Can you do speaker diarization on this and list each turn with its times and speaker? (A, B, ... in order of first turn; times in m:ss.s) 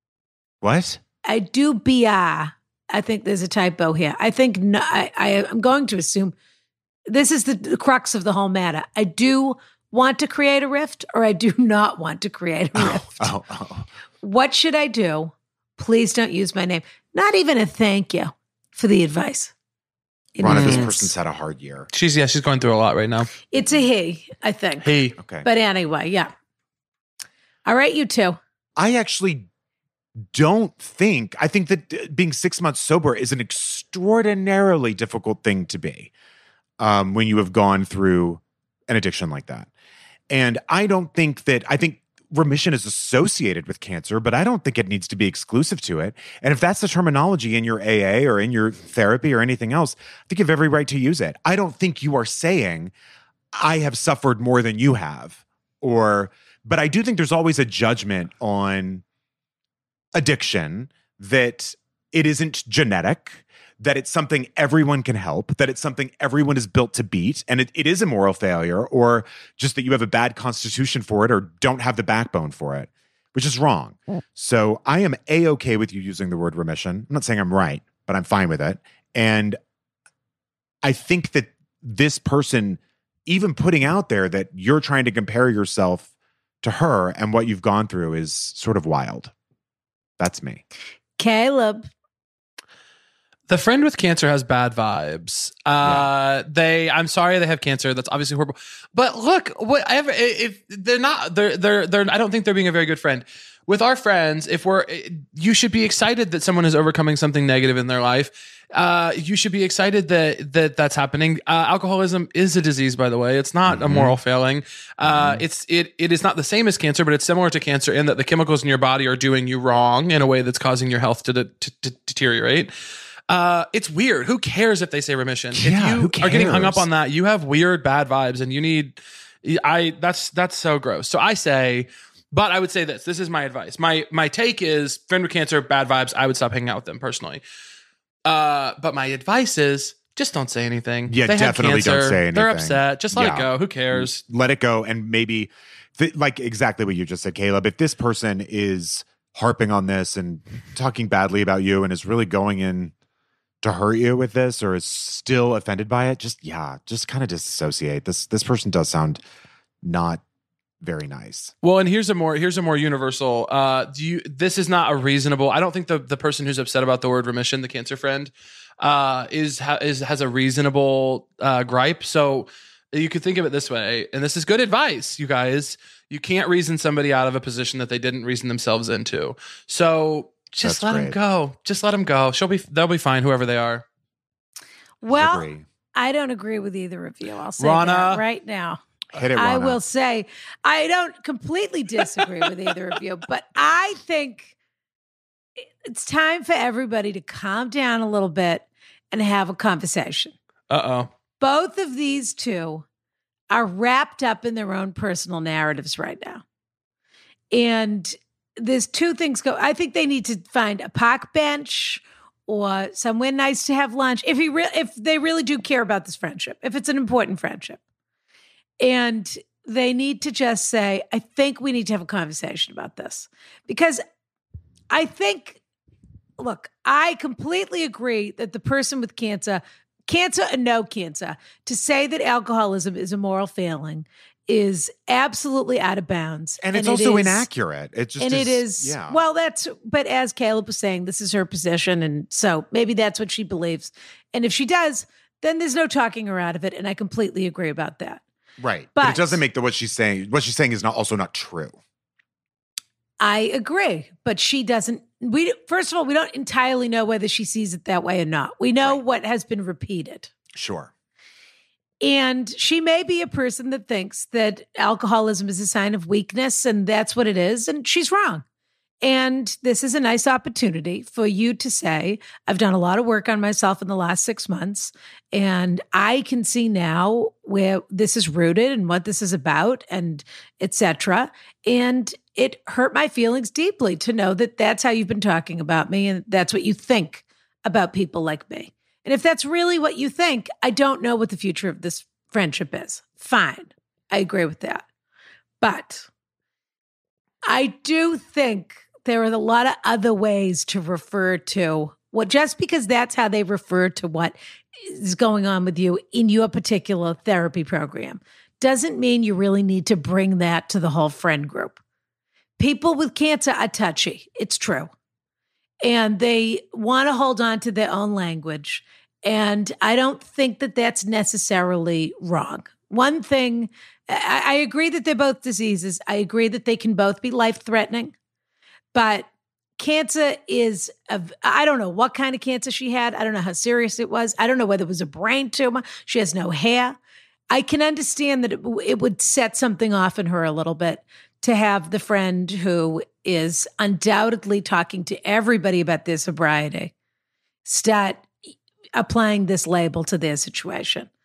0:00.6-0:01.0 A
0:01.2-0:06.4 B
0:07.1-0:13.3 B
0:12.8-0:13.9 A
0:14.2-0:19.5 B
0:20.4-0:21.1 B
0:20.4-0:21.9 A
0:20.4-0:20.9 C
0:21.9-0:23.3 C
0:23.5-0:24.9 B
0:23.6-0:23.8 A
0:24.8-0:25.2 C
0:25.2-0:25.5 A
0:25.4-0:26.3 B
0:27.7-0:28.4 B
0:28.8-0:29.5 A
0:30.3-0:36.1 A
0:36.8-0:39.7 A
0:40.3-0:52.9 A
0:53.5-0:59.0 A
1:00.2-1:19.6 A
1:20.8-1:26.1 A
1:26.6-1:29.3 A
1:30.2-1:30.6 A
1:31.2-1:31.9 B
1:33.5-2:02.7 C
1:35.8-1:36.1 A
1:53.7-1:54.2 A
1:55.0-1:55.4 A
2:03.3-2:17.4 C
2:05.5-2:06.9 A
2:18.3-2:24.2 C
2:21.1-2:32.9 A
2:33.6-2:39.2 A
2:39.8-2:40.2 A
2:40.8-2:41.5 A
2:41.6-3:03.8 C
3:00.6-3:01.2 A
3:05.0-3:08.8 B
3:05.1-3:05.6 A
3:07.6-3:08.2 C
3:09.1-3:09.8 A
3:09.3-3:14.6 B
3:15.8-3:20.3 B
3:20.7-3:21.1 C
3:21.4-3:22.8 B
3:23.5-3:26.4 B
3:27.5-3:37.8 B
3:38.8-3:44.0 B
3:44.9-3:45.6 B
3:46.4-3:57.5 B
3:56.6-3:59.2 A
3:58.2-4:08.2 B
4:08.6-4:11.8 A
4:09.0-4:09.4 B
4:13.2-4:20.3 B
4:20.5-4:20.9 A
4:22.0-4:28.4 B
4:29.0-4:54.8 B
4:55.6-4:56.1 B
4:57.5-5:11.8 B
5:12.6-5:14.9 B
5:15.8-5:28.1 B
5:28.9-5:37.0 B
5:37.5-5:46.9 B
5:47.6-5:48.3 B
5:49.0-5:51.1 B